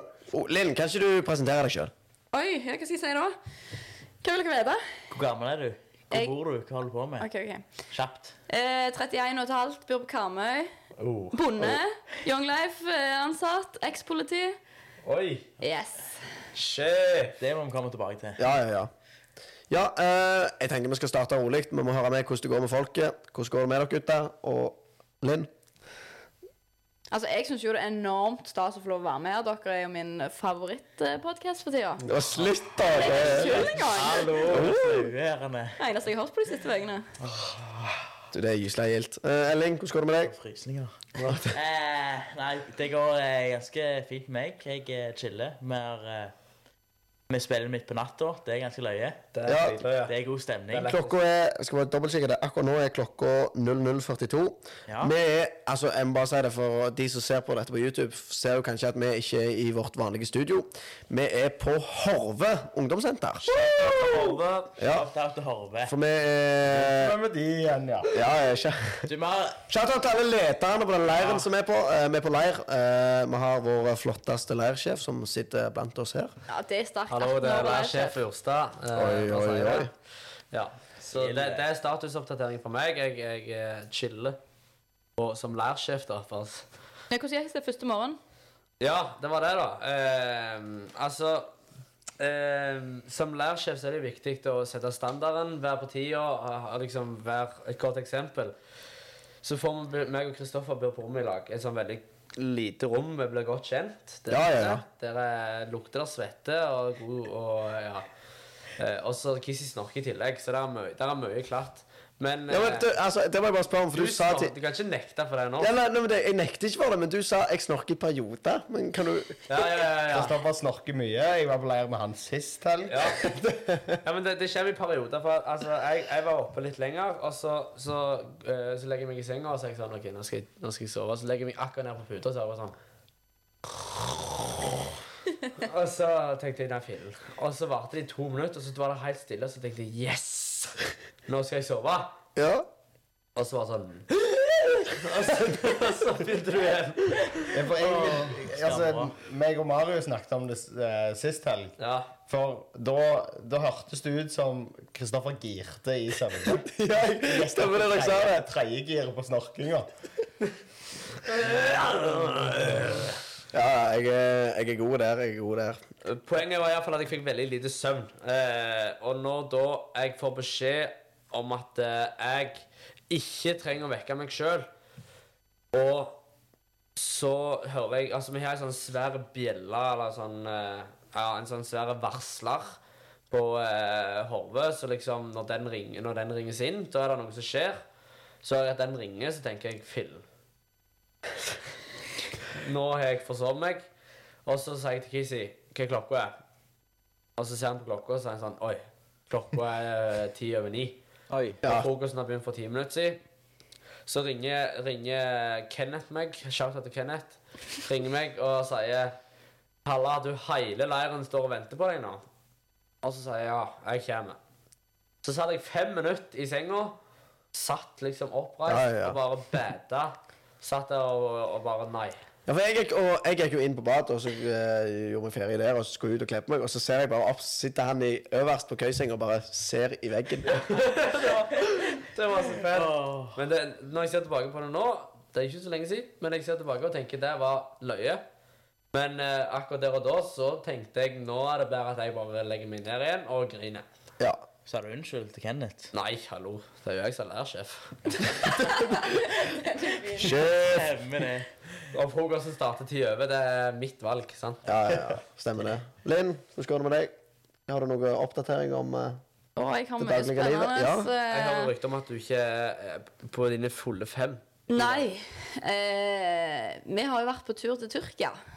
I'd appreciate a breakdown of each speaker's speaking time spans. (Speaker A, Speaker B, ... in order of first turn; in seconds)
Speaker A: 0.3-1.9, 18.4-18.9, 19.7-25.5, 32.0-33.8, 34.4-35.1, 38.3-40.3, 41.2-41.6, 49.5-49.8, 50.8-64.1, 64.8-65.1, 65.8-67.2, 68.1-69.1, 69.7-76.3, 79.0-79.9, 104.3-104.8, 112.5-114.5, 115.6-119.4, 142.4-142.7, 156.5-158.5, 163.5-165.8, 201.6-201.9, 218.7-219.2, 222.5-230.7, 250.2-250.9, 254.7-257.1, 257.7-259.2, 260.0-261.1
Speaker B: 2.3-3.4, 4.2-4.8, 7.2-7.6, 8.5-10.7, 11.3-14.6, 15.6-16.1, 27.1-32.1, 32.8-34.6, 35.8-37.1, 76.5-78.2, 87.1-88.2, 249.8-250.2, 259.6-261.7, 264.7-268.4
Speaker C: 5.1-7.3, 7.9-8.4, 17.4-18.4, 33.4-35.8, 37.2-38.2, 40.2-41.0, 41.5-46.3, 47.3-49.2, 50.1-51.0, 54.9-55.1, 64.8-66.0, 69.1-69.6, 71.2-71.5, 81.1-81.6, 147.8-149.1, 201.3-201.6, 232.7-233.4, 244.7-245.9, 249.6-251.5
Speaker D: 11.0-11.4, 15.1-15.5, 16.6-17.4, 49.3-50.1, 50.7-51.1, 63.7-64.8, 77.1-79.9, 80.5-84.4, 85.2-86.7, 88.8-91.5, 92.2-98.5, 99.4-108.1, 108.8-112.9, 113.9-115.7, 119.5-120.4, 122.9-123.4, 124.0-132.8, 133.7-134.5, 135.6-142.2, 143.4-144.1, 144.9-147.5, 151.8-152.1, 161.2-163.2, 166.0-174.7, 175.7-176.2, 177.0-182.8, 183.3-187.8, 188.4-190.2, 192.5-193.9, 194.5-196.3, 197.4-201.0, 201.6-203.2, 204.1-209.2, 209.8-212.2, 213.0-214.4, 215.2-217.0, 217.5-222.2, 230.5-238.2, 238.9-243.8, 245.9-248.3, 251.9-254.7, 261.3-265.1
Speaker E: 63.7-64.3, 66.7-68.1, 120.1-123.8, 147.5-151.8, 152.3-156.7, 157.2-159.9